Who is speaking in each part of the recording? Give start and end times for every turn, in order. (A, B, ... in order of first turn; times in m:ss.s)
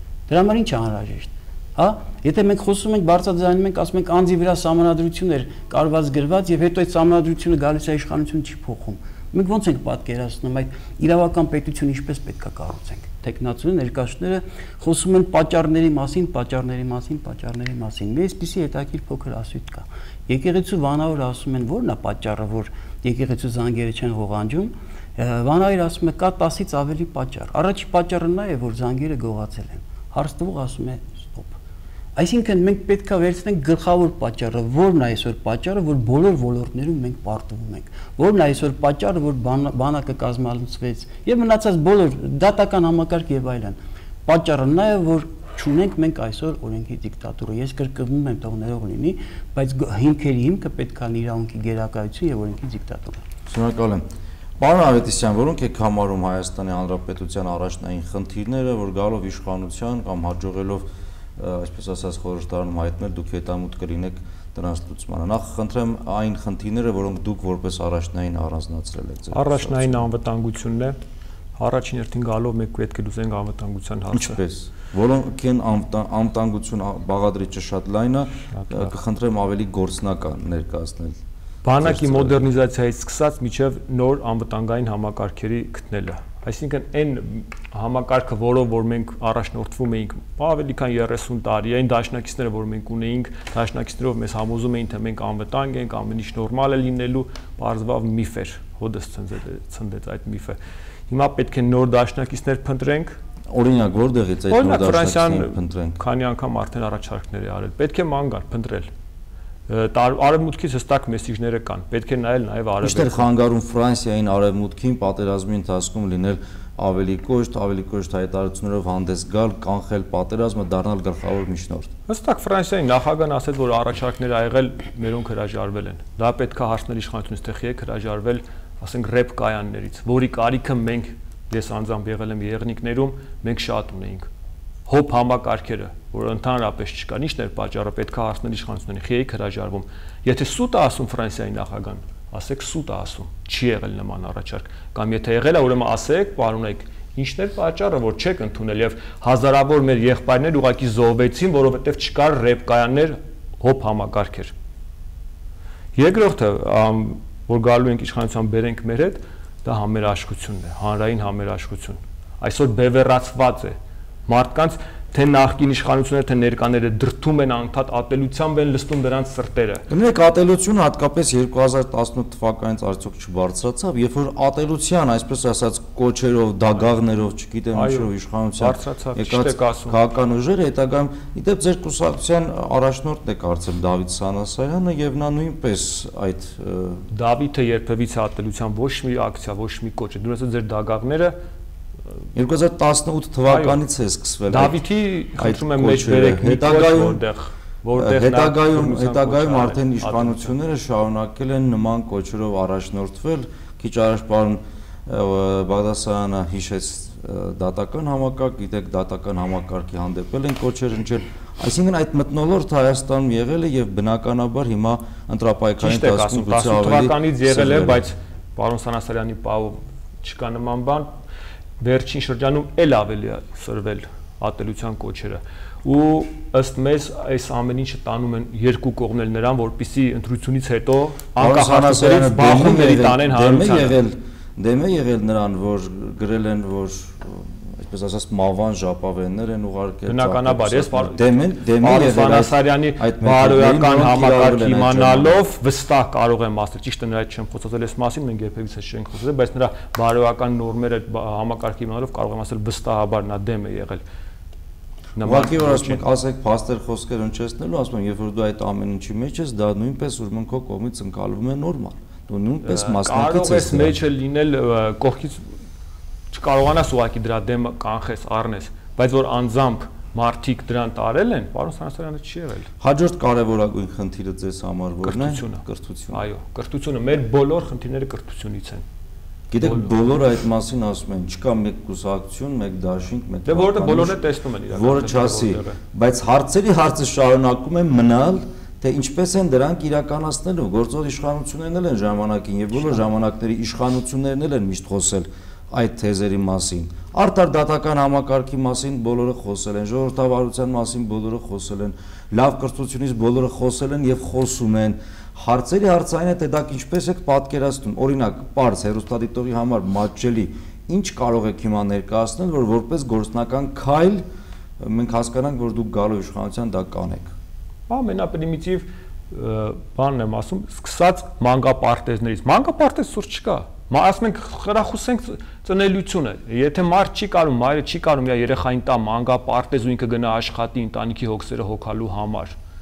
0:00.3-0:31.6 A
0:32.2-0:53.2 A
0:53.5-0:54.0 B
0:54.6-1:10.1 B
1:09.3-1:11.0 C
1:11.6-1:14.4 C
1:14.1-1:21.2 B
1:18.5-1:18.9 C
1:21.6-1:40.6 C
1:21.8-1:22.4 B
1:41.1-1:43.2 C
1:43.5-1:46.0 B
1:44.5-1:48.9 C
1:49.7-1:53.3 C
1:52.8-2:01.9 B
2:02.1-2:14.3 C
2:14.8-2:34.5 C
2:35.9-2:43.8 C
2:44.3-2:49.8 C
2:49.9-3:07.0 B
2:57.7-3:00.0 C
3:07.1-3:11.4 C
3:12.3-3:14.8 B
3:13.5-3:13.8 C
3:14.5-3:20.5 C
3:15.4-3:17.2 B
3:17.9-3:38.0 B
3:35.8-3:41.1 C
3:41.8-3:54.0 C
3:51.4-4:05.4 B
4:00.1-4:01.2 C
4:01.8-4:14.0 C
4:15.2-4:16.0 C
4:15.2-4:24.0 B
4:22.6-4:25.4 C
4:26.3-4:32.7 C
4:32.8-4:36.2 B
4:35.0-4:38.8 C
4:39.5-4:44.2 B
4:39.6-4:39.9 C
4:43.4-4:45.8 C
4:44.7-5:14.2 B
5:14.8-5:17.3 B
5:17.9-5:32.6 C